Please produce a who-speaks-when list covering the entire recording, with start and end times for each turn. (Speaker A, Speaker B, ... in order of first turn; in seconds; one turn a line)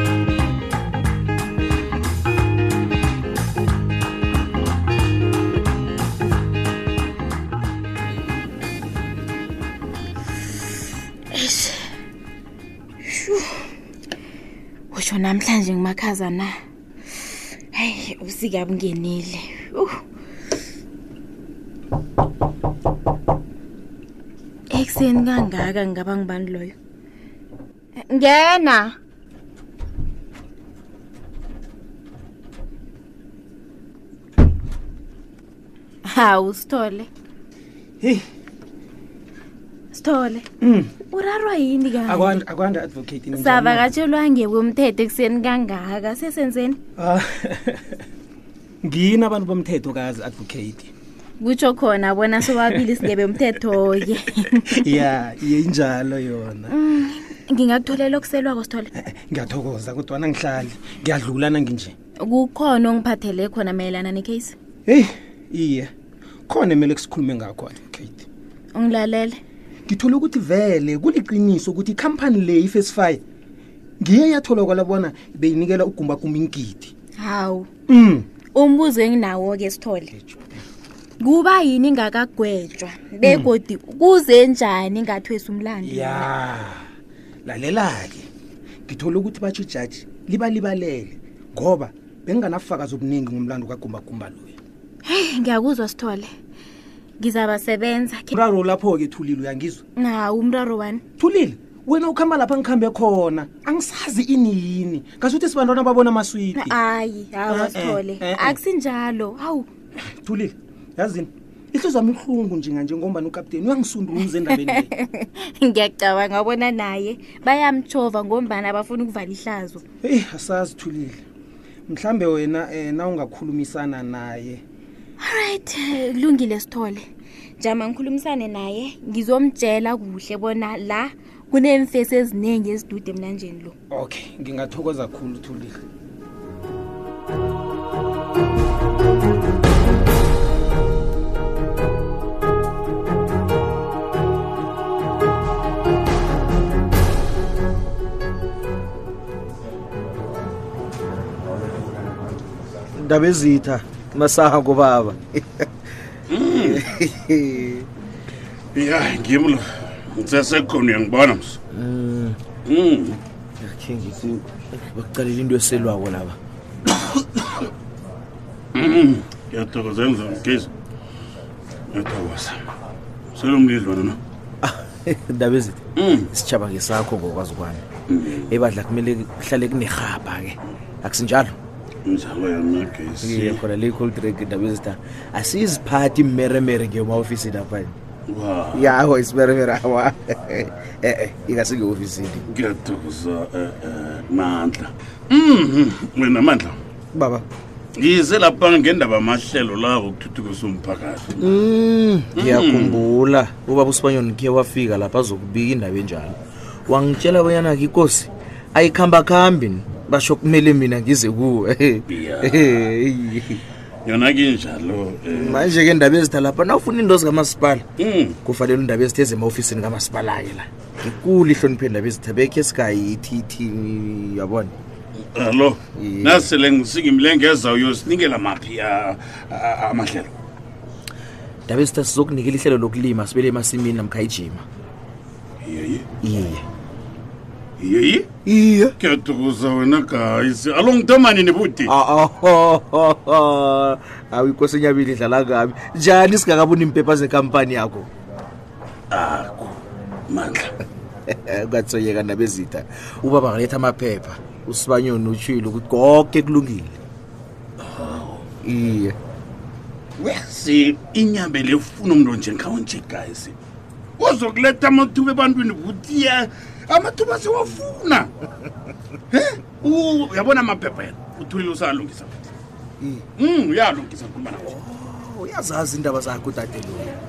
Speaker A: 11.3-11.9
Speaker A: 13.0-13.5
Speaker A: 14.9-16.5
Speaker A: 17.7-19.9
Speaker A: 24.7-26.8
Speaker A: 28.1-28.9
Speaker A: 36.1-37.1
Speaker A: 39.9-40.5
Speaker B: 40.6-40.9
Speaker A: 41.1-42.4
Speaker B: 42.1-43.9
Speaker A: 43.4-46.8
Speaker B: 47.0-47.9
Speaker B: 48.8-50.9
Speaker A: 51.4-54.8
Speaker B: 52.5-52.7
Speaker B: 54.7-56.7
Speaker A: 56.7-58.9
Speaker B: 59.0-62.0
Speaker A: 62.2-64.6
Speaker B: 64.9-65.9
Speaker B: 66.5-68.3
Speaker A: 68.7-69.4
Speaker B: 69.9-73.2
Speaker B: 74.0-76.9
Speaker A: 77.2-77.7
Speaker B: 77.9-78.3
Speaker A: 78.5-80.1
Speaker B: 80.1-80.6
Speaker A: 81.2-86.3
Speaker B: 83.2-83.5
Speaker B: 85.8-86.8
Speaker B: 87.5-88.3
Speaker B: 88.9-94.6
Speaker A: 95.0-96.3
Speaker A: 97.2-98.3
Speaker B: 98.3-99.8
Speaker A: 100.0-101.0
Speaker B: 101.2-106.8
Speaker A: 106.5-109.7
Speaker B: 107.5-108.6
Speaker B: 110.2-114.9
Speaker A: 114.5-119.8
Speaker B: 120.0-121.2
Speaker B: 121.9-124.6
Speaker A: 125.2-127.1
Speaker A: 127.6-133.8
Speaker B: 133.9-135.8
Speaker C: 153.0-155.7
Speaker D: 156.3-156.9
Speaker C: 156.6-157.9
Speaker D: 158.7-161.6
Speaker C: 161.7-162.4
Speaker D: 162.7-163.2
Speaker C: 163.6-166.4
Speaker D: 168.8-170.7
Speaker D: 171.9-172.6
Speaker D: 173.3-174.2
Speaker C: 174.6-181.6
Speaker D: 176.0-176.3
Speaker D: 178.1-178.5
Speaker D: 182.1-183.6
Speaker C: 183.2-187.9
Speaker D: 188.3-188.9
Speaker C: 188.7-192.4
Speaker D: 192.5-196.8
Speaker D: 198.0-201.5
Speaker C: 201.4-213.6
Speaker D: 202.4-203.1
Speaker D: 212.1-212.8
Speaker D: 214.1-215.7
Speaker C: 215.3-217.9
Speaker D: 218.0-218.4
Speaker C: 218.4-224.7
Speaker D: 225.3-230.3
Speaker C: 226.0-226.5
Speaker C: 231.7-234.6
Speaker D: 235.6-236.1
Speaker C: 236.2-236.6
Speaker D: 237.8-238.3
Speaker C: 238.4-238.9
Speaker D: 239.0-241.9
Speaker C: 241.9-248.1
Speaker D: 249.1-250.7
Speaker C: 251.3-257.0
Speaker D: 257.8-258.5
Speaker C: 258.6-259.2
Speaker D: 260.2-263.6
Speaker D: 264.2-268.3
Speaker D: 269.3-272.5
Speaker C: 273.0-273.2
Speaker D: 273.4-274.8
Speaker C: 274.6-277.2